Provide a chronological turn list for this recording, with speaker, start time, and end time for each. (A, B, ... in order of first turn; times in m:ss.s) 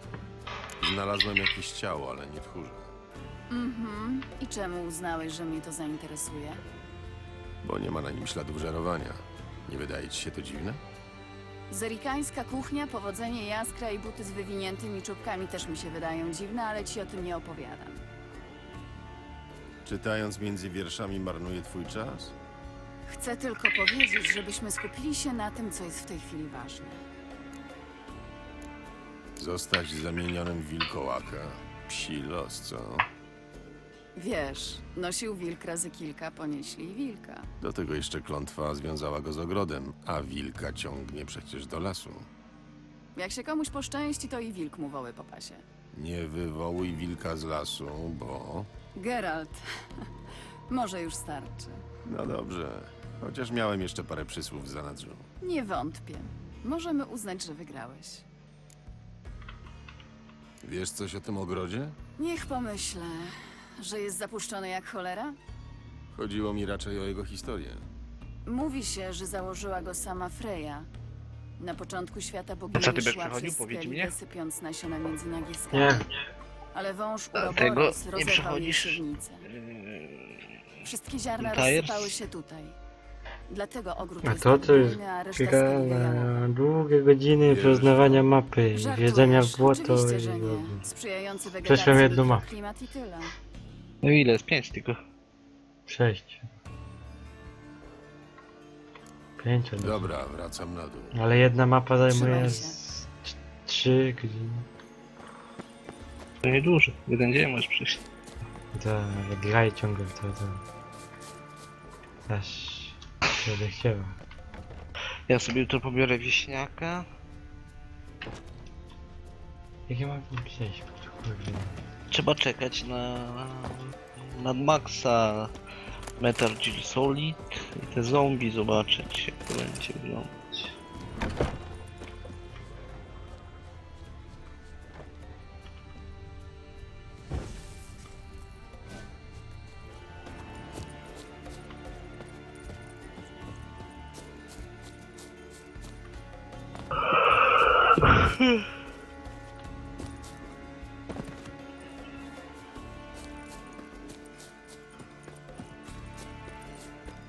0:00.8-0:03.0 A
0:03.5-0:06.6 B
0:07.6-0:10.8 A
0:11.7-0:18.0 B
0:19.8-0:22.3 A
0:23.1-0:27.0 B
0:29.4-0:33.1 A
0:34.2-0:37.5 B
0:37.6-0:42.3 A
0:43.1-0:45.6 B
0:45.9-0:48.7 A
0:49.0-0:49.6 B
0:50.7-0:51.8 B
0:52.0-0:55.3 A
0:55.4-0:58.2 B
1:00.6-1:02.0 A
1:02.2-1:05.4 B
1:06.1-1:07.8 A
1:08.4-1:10.9 B
1:11.6-1:16.0 B
1:12.7-1:14.1 C
1:15.7-1:16.1 D
1:16.7-1:19.5 B
1:17.3-1:20.8 C
1:20.8-1:22.8 B
1:21.4-1:22.2 C
1:23.5-1:26.4 B
1:24.2-1:30.8 D
1:27.5-1:28.3 A
1:28.7-1:33.3 B
1:31.6-1:32.5 D
1:34.0-1:35.0 C
1:35.9-1:36.5 D
1:39.4-1:40.1 D
1:39.8-1:41.2 A
1:41.1-1:44.7 D
1:42.1-1:42.8 B
1:46.4-1:48.0 C
1:48.7-1:50.6 D
1:52.3-1:54.2 D
1:55.3-1:57.1 C
1:59.9-2:01.8 D
2:02.1-2:05.5 C
2:06.2-2:10.8 C